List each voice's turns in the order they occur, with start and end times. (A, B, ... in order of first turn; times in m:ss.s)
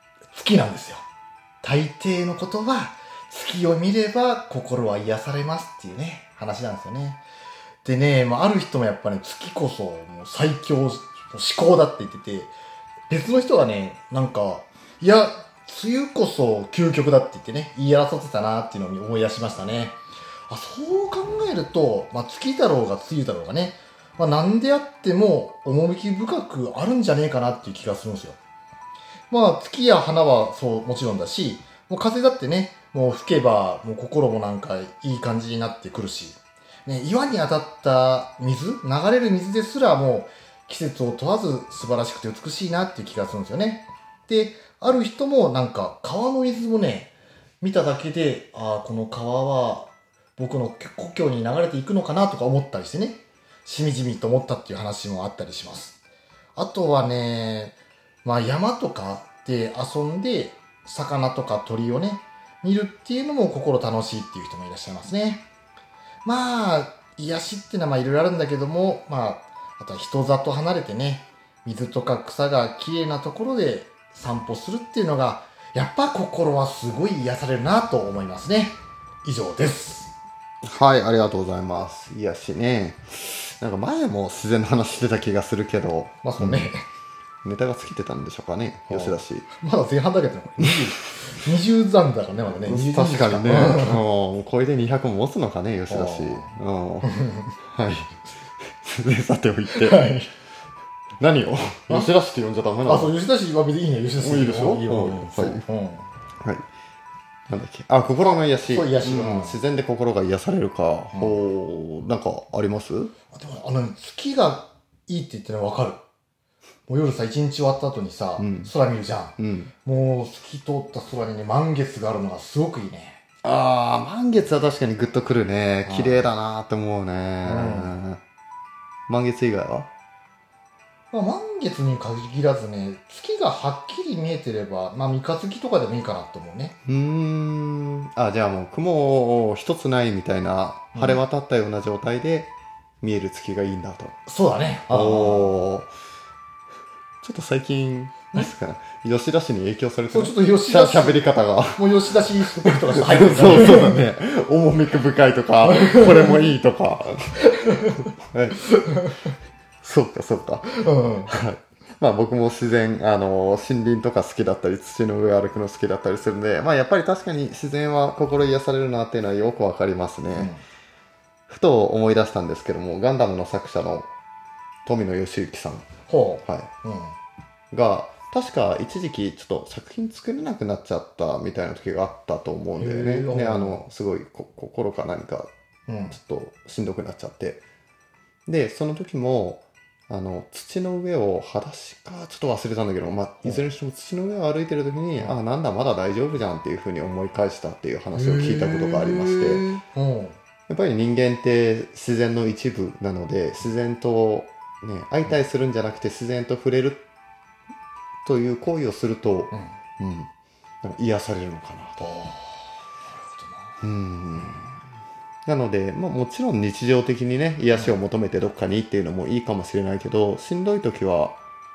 0:00.3-0:01.0 A
0:01.6-0:07.2 A
0:07.8-0:12.5 A
0:13.1-0:20.0 A
0:20.5-0:28.4 A
0:29.3-0:56.0 A
0:56.6-1:05.4 A
1:06.2-1:20.1 A
1:20.6-1:26.7 B
1:26.2-1:26.8 A
1:27.4-1:29.4 B
1:28.9-1:34.0 A
1:32.6-1:37.1 B
1:35.9-1:36.5 A
1:37.0-1:37.5 A
1:37.6-1:40.0 B
1:39.7-1:40.3 A
1:41.2-1:43.1 B
1:42.8-1:46.1 A
1:44.2-1:45.6 B
1:47.5-1:53.1 B
1:48.2-1:49.6 A
1:51.1-1:51.4 A
1:53.3-1:56.0 A
1:56.9-2:03.2 A
1:58.4-1:58.7 B
1:59.4-1:59.7 B
2:03.4-2:08.2 B
2:05.8-2:06.2 A
2:07.4-2:07.9 A
2:09.1-2:09.9 B
2:11.1-2:16.8 A
2:16.8-2:22.5 B
2:20.9-2:21.2 A
2:23.0-2:24.1 B
2:24.2-2:25.6 A
2:24.9-2:25.9 B
2:27.2-2:31.8 B
2:30.1-2:34.0 A
2:32.6-2:37.4 B
2:35.7-2:36.4 A
2:37.6-2:37.9 A
2:38.3-2:38.6 B
2:38.8-2:39.3 A
2:39.8-2:50.5 B
2:40.7-2:41.3 A
2:50.3-2:50.6 A
2:51.5-2:54.1 B
2:54.8-2:55.9 B
2:56.1-2:57.1 A
2:56.4-2:56.7 B
2:57.7-3:05.5 B
3:02.8-3:03.8 A
3:05.9-3:06.2 A
3:06.1-3:07.6 B
3:08.5-3:19.7 B
3:18.1-3:20.4 A
3:20.7-3:27.0 B
3:28.2-3:30.3 B
3:30.8-3:32.0 B
3:32.0-3:33.8 A
3:33.8-3:34.7 B
3:35.4-3:41.4 B